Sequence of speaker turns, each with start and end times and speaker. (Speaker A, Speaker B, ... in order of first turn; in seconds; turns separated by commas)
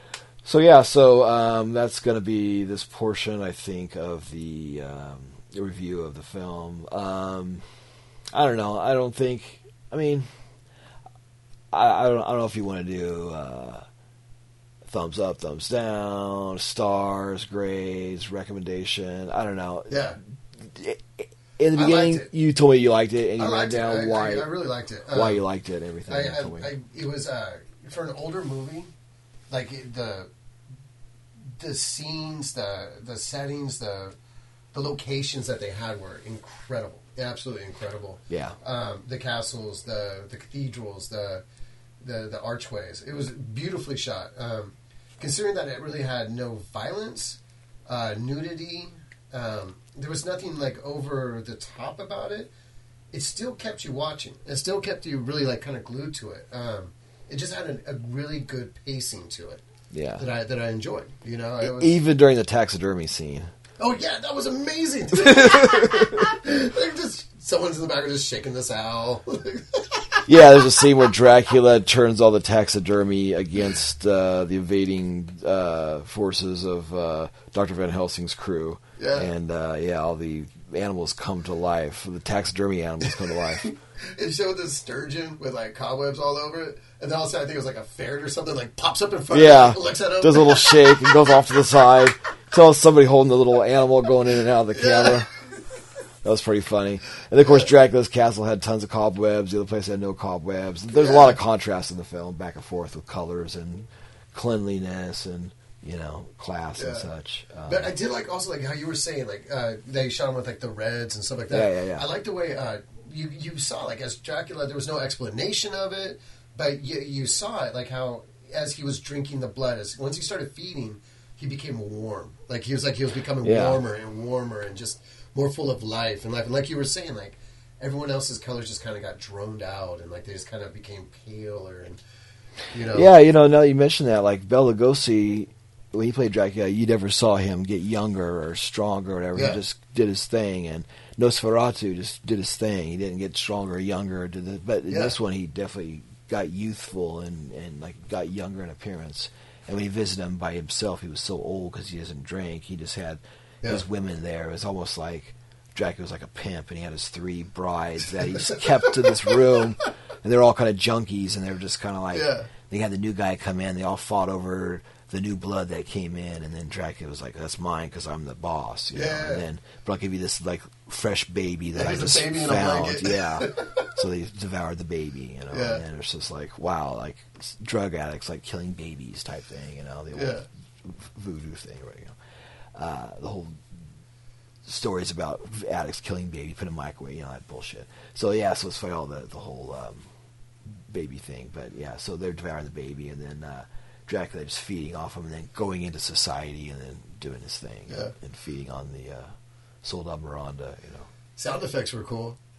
Speaker A: 0.4-7.6, Speaker A: 8.3-10.3, Speaker A: 11.7-13.8, Speaker A: 14.9-20.0, Speaker B: 19.9-20.2, Speaker A: 20.6-24.5, Speaker B: 21.7-22.3, Speaker B: 23.4-25.4, Speaker A: 25.1-26.7, Speaker B: 26.1-28.9, Speaker B: 29.5-30.3, Speaker B: 31.6-34.2, Speaker B: 34.7-41.4, Speaker A: 38.3-38.6, Speaker B: 42.0-52.5, Speaker B: 53.1-59.6, Speaker A: 59.9-60.2, Speaker B: 60.2-62.0, Speaker A: 61.6-63.5, Speaker B: 63.8-70.2, Speaker A: 65.2-66.1, Speaker A: 70.2-83.7, Speaker B: 79.0-79.3, Speaker B: 83.5-91.4, Speaker A: 89.3-95.3, Speaker B: 94.7-95.4, Speaker A: 96.2-107.9, Speaker B: 100.9-101.4, Speaker B: 106.8-107.0, Speaker B: 107.7-132.0, Speaker A: 111.5-112.0, Speaker A: 123.4-123.8, Speaker B: 132.7-133.1, Speaker A: 132.9-182.1, Speaker B: 139.3-139.6, Speaker B: 144.9-145.1, Speaker B: 158.2-159.4, Speaker B: 162.1-162.5, Speaker B: 168.9-169.4, Speaker B: 171.7-173.9, Speaker B: 175.5-175.8, Speaker B: 180.1-180.4, Speaker A: 182.8-183.6, Speaker A: 184.6-190.1, Speaker A: 190.8-199.3, Speaker A: 199.8-201.1, Speaker B: 201.4-202.4